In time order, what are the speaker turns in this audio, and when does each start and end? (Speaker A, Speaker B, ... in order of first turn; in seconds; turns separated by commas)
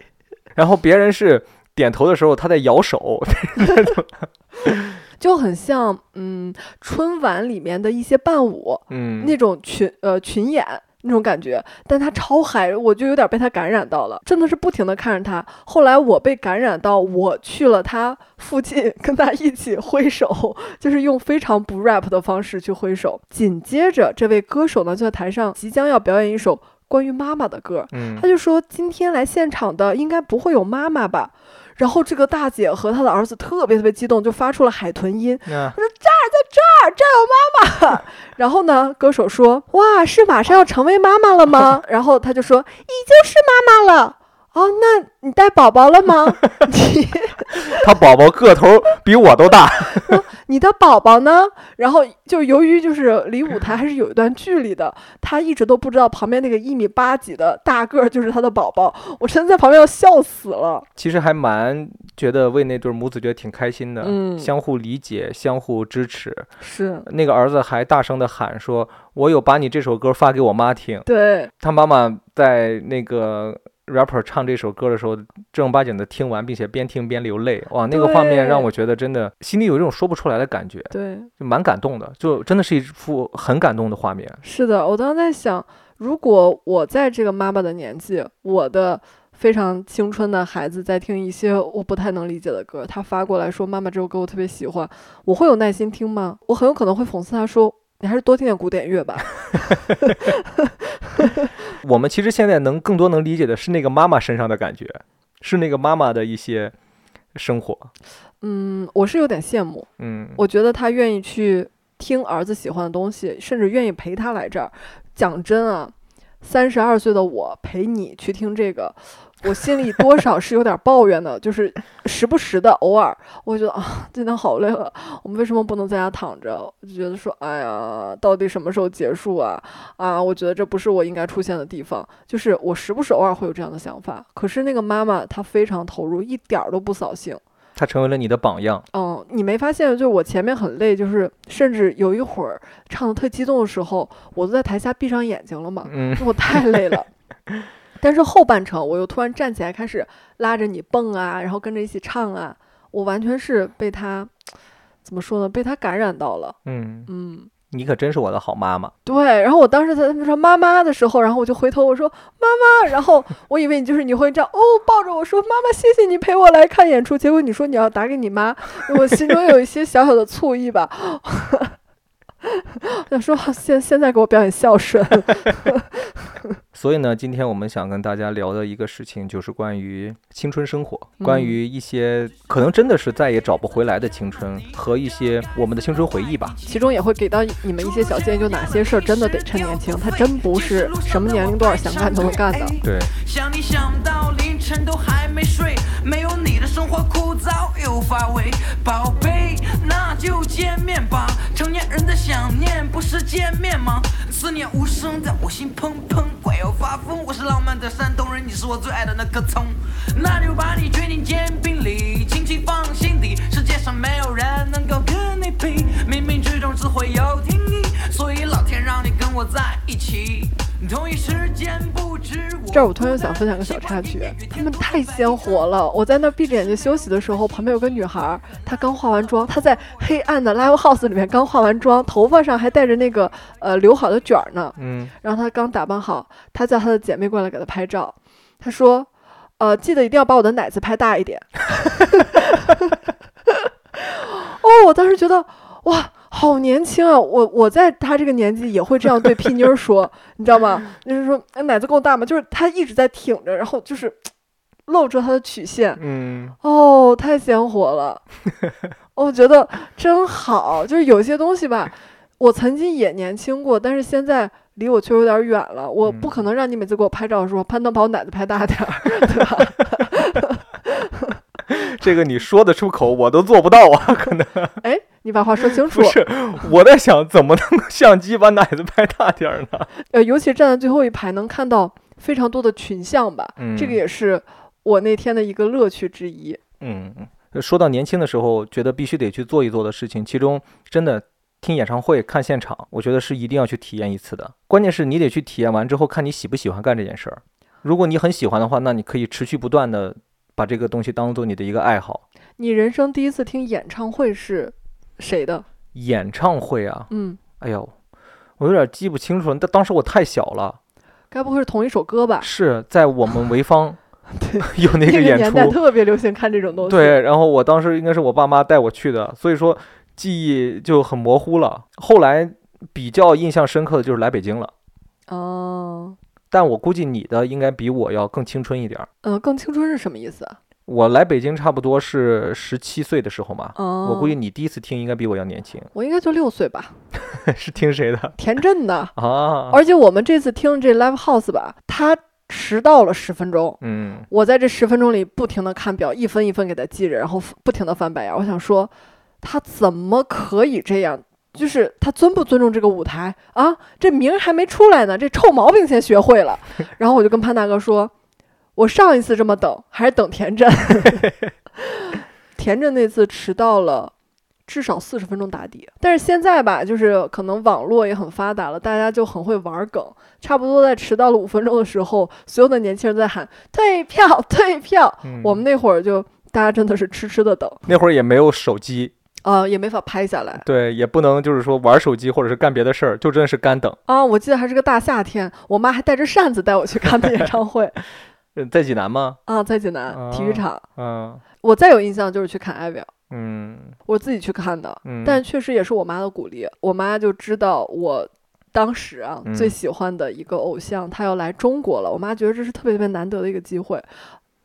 Speaker A: 0.5-5.0, Speaker B: 5.2-47.7, Speaker A: 8.9-9.4, Speaker A: 27.9-28.2, Speaker A: 35.5-35.8, Speaker A: 47.7-50.1, Speaker B: 50.0-60.9, Speaker A: 61.0-66.5, Speaker B: 64.0-64.5, Speaker B: 66.6-67.1, Speaker A: 67.0-71.0, Speaker B: 71.0-71.5, Speaker A: 71.6-84.4, Speaker B: 77.9-78.7, Speaker B: 80.9-81.3, Speaker B: 84.4-100.7, Speaker A: 101.8-106.7, Speaker A: 107.3-107.9, Speaker B: 108.4-137.4, Speaker A: 110.0-110.4, Speaker A: 137.8-138.8, Speaker B: 138.9-147.1, Speaker A: 145.8-147.0, Speaker B: 148.0-154.3, Speaker B: 155.0-156.6, Speaker A: 156.6-157.1, Speaker B: 157.1-157.5, Speaker A: 157.7-158.9, Speaker B: 159.1-171.7, Speaker B: 172.4-176.0, Speaker A: 176.7-186.6, Speaker B: 181.2-181.6, Speaker C: 184.5-186.9, Speaker B: 186.7-192.8, Speaker C: 187.7-225.7, Speaker A: 192.8-193.1, Speaker B: 222.7-243.0, Speaker A: 234.8-235.1, Speaker B: 243.5-254.3, Speaker B: 254.9-256.0, Speaker A: 256.0-256.6, Speaker B: 256.6-258.2, Speaker B: 259.1-271.3, Speaker A: 266.0-266.4, Speaker A: 269.2-269.7, Speaker A: 271.7-274.7, Speaker B: 274.8-276.2, Speaker A: 275.6-279.9, Speaker B: 280.0-286.6, Speaker A: 283.6-284.0, Speaker A: 286.8-302.2, Speaker B: 302.6-305.6, Speaker A: 305.9-307.9, Speaker B: 307.1-307.4, Speaker A: 308.6-310.8, Speaker B: 311.3-312.5, Speaker A: 312.4-314.0, Speaker B: 314.4-317.2, Speaker A: 314.6-315.8, Speaker A: 316.8-324.7, Speaker B: 325.3-326.2, Speaker A: 326.5-329.1, Speaker B: 329.2-330.6, Speaker A: 330.9-335.9, Speaker B: 333.8-334.4, Speaker B: 335.9-336.9, Speaker A: 337.2-338.4, Speaker B: 338.4-339.1, Speaker A: 339.1-339.8, Speaker B: 339.7-343.8, Speaker A: 343.8-344.3, Speaker B: 344.3-358.1, Speaker B: 358.8-361.3, Speaker B: 361.8-364.1, Speaker B: 364.7-377.8, Speaker A: 375.2-375.6, Speaker A: 377.9-379.1, Speaker B: 379.4-380.6, Speaker A: 380.6-384.0, Speaker B: 384.1-387.9, Speaker A: 388.5-389.4, Speaker B: 389.5-390.8, Speaker A: 390.1-391.4, Speaker B: 391.6-393.1, Speaker A: 393.3-393.9, Speaker B: 394.1-404.1, Speaker A: 395.0-395.4, Speaker A: 399.4-399.8